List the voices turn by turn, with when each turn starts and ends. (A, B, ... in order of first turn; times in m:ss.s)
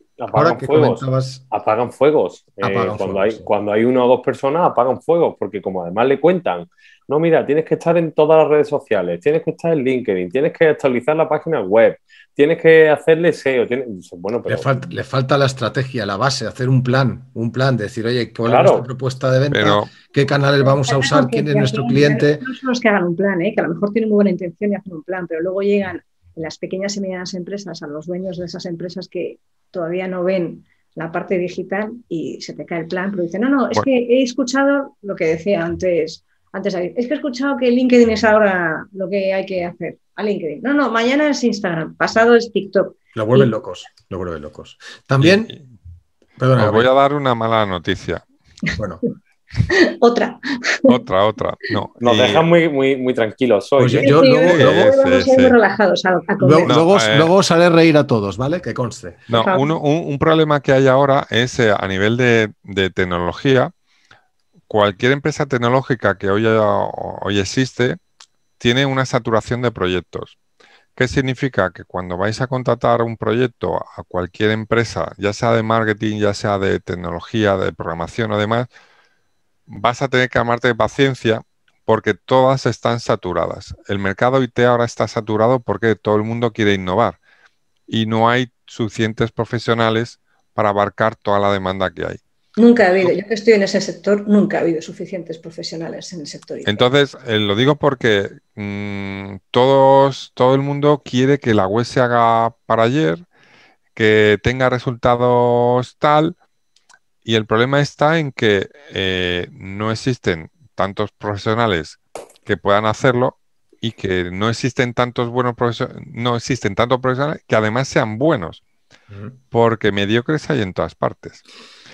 0:00.2-0:14.7 A
0:00.3-0:01.4 B
0:02.6-0:03.5 B
0:14.5-0:22.4 B
0:18.4-0:18.9 A
0:19.5-0:19.9 C
0:20.6-0:43.5 D
0:43.2-0:45.5 B
0:45.2-0:45.6 C
0:46.4-0:46.9 B
0:46.6-0:48.2 C
0:49.7-0:50.9 D
0:50.9-0:52.5 C
0:52.0-0:54.2 A
0:53.8-0:54.9 B
0:54.0-0:56.8 D
0:54.4-0:55.6 C
0:56.4-0:59.3 B
0:56.7-0:57.3 C
0:59.3-1:03.7 C
0:59.3-0:59.7 D
1:04.7-1:08.0 C
1:08.6-1:10.4 C
1:11.0-1:18.7 C
1:19.7-1:27.2 C
1:27.9-1:32.2 C
1:32.6-1:36.9 D
1:36.7-1:43.2 C
1:44.0-1:46.4 C
1:47.2-1:58.6 C
1:59.5-2:01.4 C